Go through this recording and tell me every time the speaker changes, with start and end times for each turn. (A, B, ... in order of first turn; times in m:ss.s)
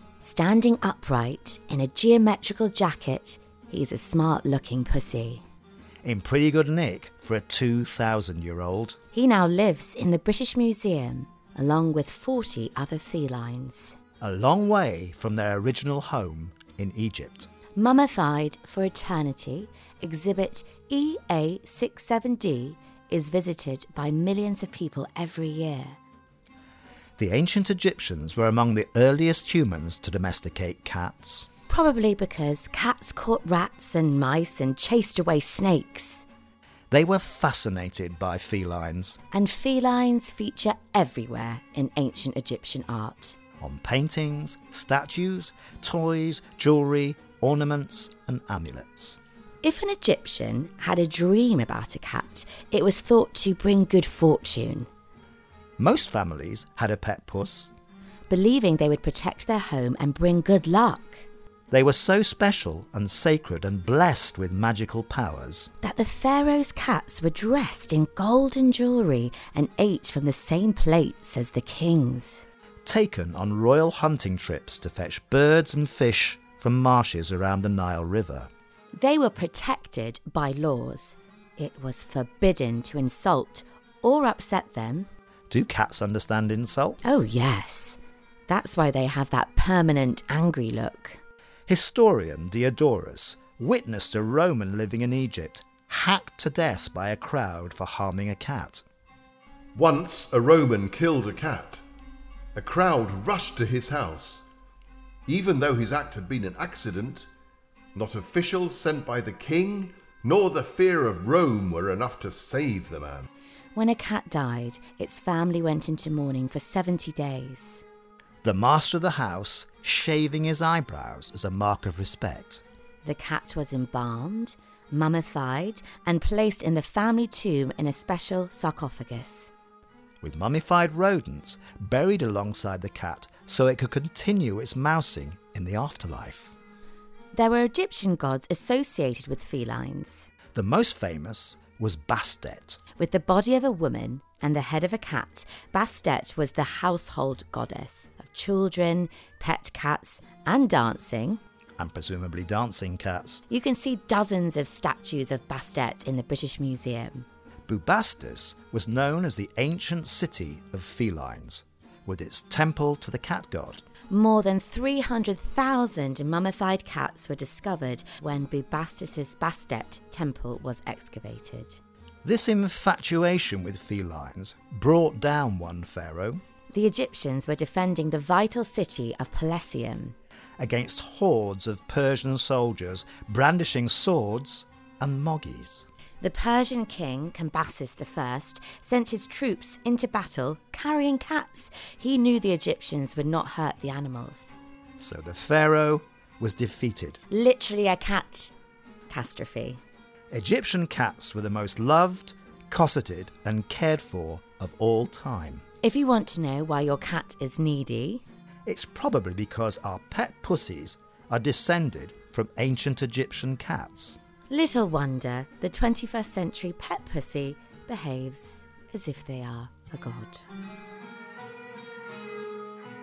0:00.2-0:05.4 A
0:06.0-0:09.0 B
0:09.1-0:14.0 A
0:14.2-0:17.5 B
0:17.8-0:26.0 A
0:27.2-0:31.5 B
0:31.7-0:36.2 A
0:36.9-0:39.2 B
0:39.3-0:43.4 A
0:43.6-0:49.2 B
0:49.6-0:54.9 A
0:55.8-0:57.7 B
0:58.3-1:01.2 A
1:01.7-1:05.7 B
1:05.8-1:12.4 A
1:12.8-1:18.5 B
1:18.9-1:25.1 A
1:25.5-1:27.2 B
1:27.0-1:31.2 A
1:31.7-1:38.8 B
1:39.7-1:41.8 C
1:42.5-1:44.4 C
1:45.3-1:47.3 C
1:47.9-1:53.3 C
1:53.7-1:57.8 A
1:58.4-2:02.6 B
2:03.0-2:09.5 A
2:10.2-2:16.5 B
2:17.3-2:20.3 A
2:20.5-2:22.8 B
2:23.0-2:31.4 A
2:31.8-2:33.4 B
2:33.5-2:37.2 A
2:37.7-2:43.8 B
2:44.1-2:51.8 A
2:52.2-2:56.4 B
2:56.7-3:00.2 A
3:00.6-3:05.9 B
3:06.2-3:14.6 A
3:15.0-3:17.2 B
3:17.3-3:18.5 A
3:19.1-3:19.8 A
3:20.3-3:25.6 B
3:25.8-3:28.2 A
3:28.6-3:34.2 B
3:34.5-3:40.4 A